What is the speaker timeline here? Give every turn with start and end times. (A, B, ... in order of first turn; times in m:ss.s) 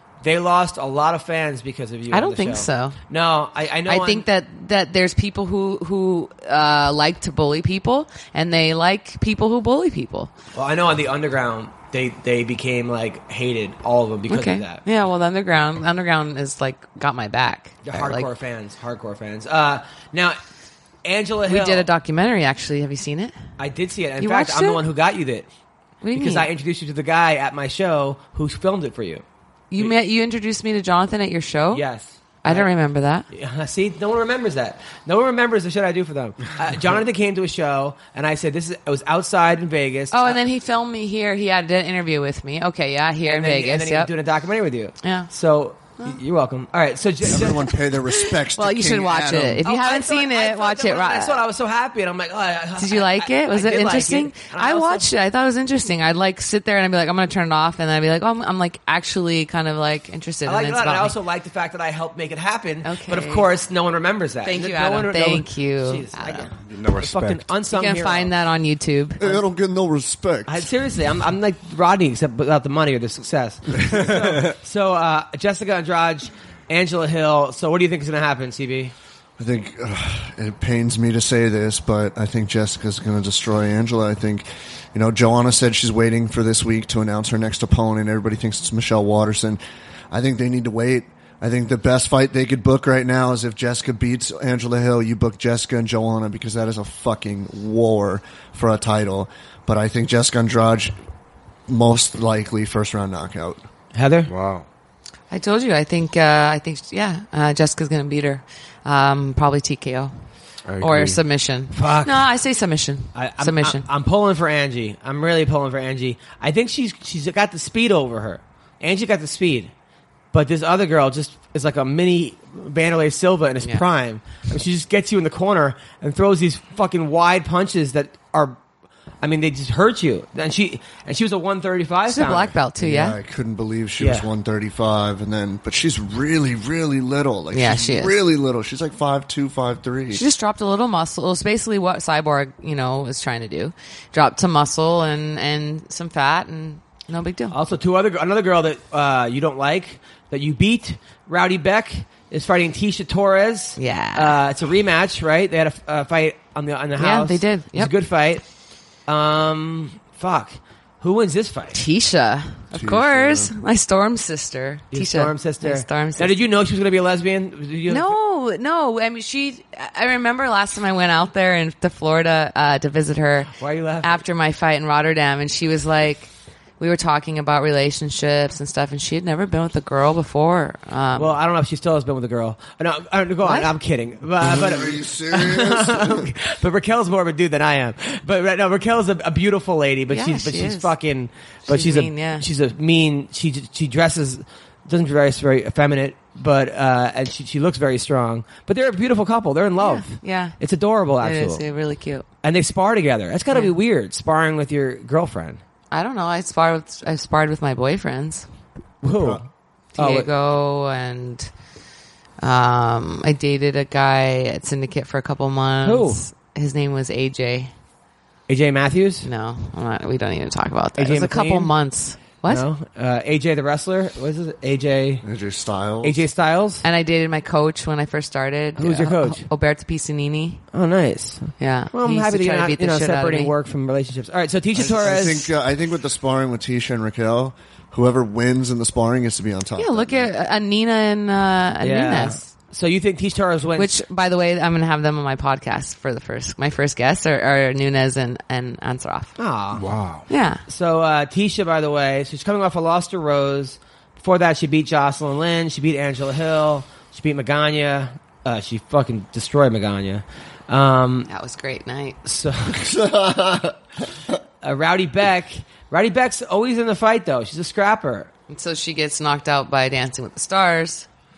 0:00.2-0:04.3 A
0:02.1-0:03.0 B
0:03.9-0:10.3 B
0:10.5-0:14.8 A
0:14.3-0:18.3 B
0:17.8-0:20.4 A
0:21.0-0:21.9 A
0:21.5-0:23.4 B
0:23.6-0:25.5 A
0:24.2-0:24.8 B
0:26.0-0:26.5 B
0:26.2-0:29.2 A
0:29.7-0:31.8 B
0:31.7-0:32.7 A
0:32.4-0:33.3 B
0:33.3-0:40.4 A
0:40.1-0:44.1 B
0:43.2-0:47.7 A
0:45.0-0:45.3 B
0:47.3-0:49.6 C
0:47.7-0:51.4 B
0:49.6-0:55.1 A
0:52.8-1:01.2 B
1:00.5-1:08.3 A
1:02.8-1:03.5 B
1:04.4-1:06.5 B
1:06.6-1:07.5 D
1:07.7-1:09.2 B
1:09.2-1:10.7 C
1:10.5-1:18.9 A
1:19.4-1:29.6 C
1:30.1-1:40.9 C
1:41.7-1:43.6 C
1:43.9-1:44.3 A
1:44.3-1:44.6 D
1:45.3-1:50.1 B
1:50.7-1:51.2 D
1:50.8-1:53.8 B
1:51.7-1:52.3 A
1:53.2-1:59.7 A
2:00.3-2:08.6 A
2:09.2-2:12.6 A
2:12.1-2:13.2 B
2:12.8-2:20.2 C
2:14.0-2:14.3 A
2:17.5-2:18.2 B
2:20.1-2:27.6 B
2:27.5-2:38.4 A
2:33.8-2:34.4 B
2:37.0-2:37.9 B
2:39.1-2:41.8 A
2:41.7-2:46.4 B
2:42.7-2:43.5 C
2:44.9-2:48.1 A
2:47.9-3:01.4 B
2:53.6-2:54.2 A
3:01.2-3:21.6 A
3:03.4-3:03.7 B
3:04.4-3:06.3 C
3:10.1-3:10.9 B
3:11.7-3:12.4 B
3:19.8-3:20.6 B
3:21.2-3:22.3 B
3:22.4-3:25.6 A
3:25.9-3:28.5 B
3:29.0-3:29.4 A
3:29.1-3:29.4 C
3:30.0-3:31.5 B
3:30.0-3:30.3 A
3:32.4-3:37.7 B
3:35.8-3:36.2 A
3:38.5-3:39.3 A
3:39.2-3:42.7 B
3:41.0-3:41.7 A
3:42.5-3:45.2 A
3:45.2-3:46.2 C
3:46.0-3:46.8 A
3:46.8-3:50.6 B
3:48.8-3:49.5 A
3:50.7-3:55.5 A
3:51.6-3:53.5 B
3:54.8-4:00.3 C
3:59.8-4:02.5 B
4:01.8-4:03.9 A
4:03.8-4:09.4 B
4:09.4-4:09.8 A
4:09.7-4:10.2 D
4:10.3-4:10.6 B
4:10.7-4:21.3 A
4:21.3-4:22.2 B
4:22.2-4:22.9 A
4:22.7-4:24.3 C
4:24.6-4:28.3 A
4:28.5-4:31.1 B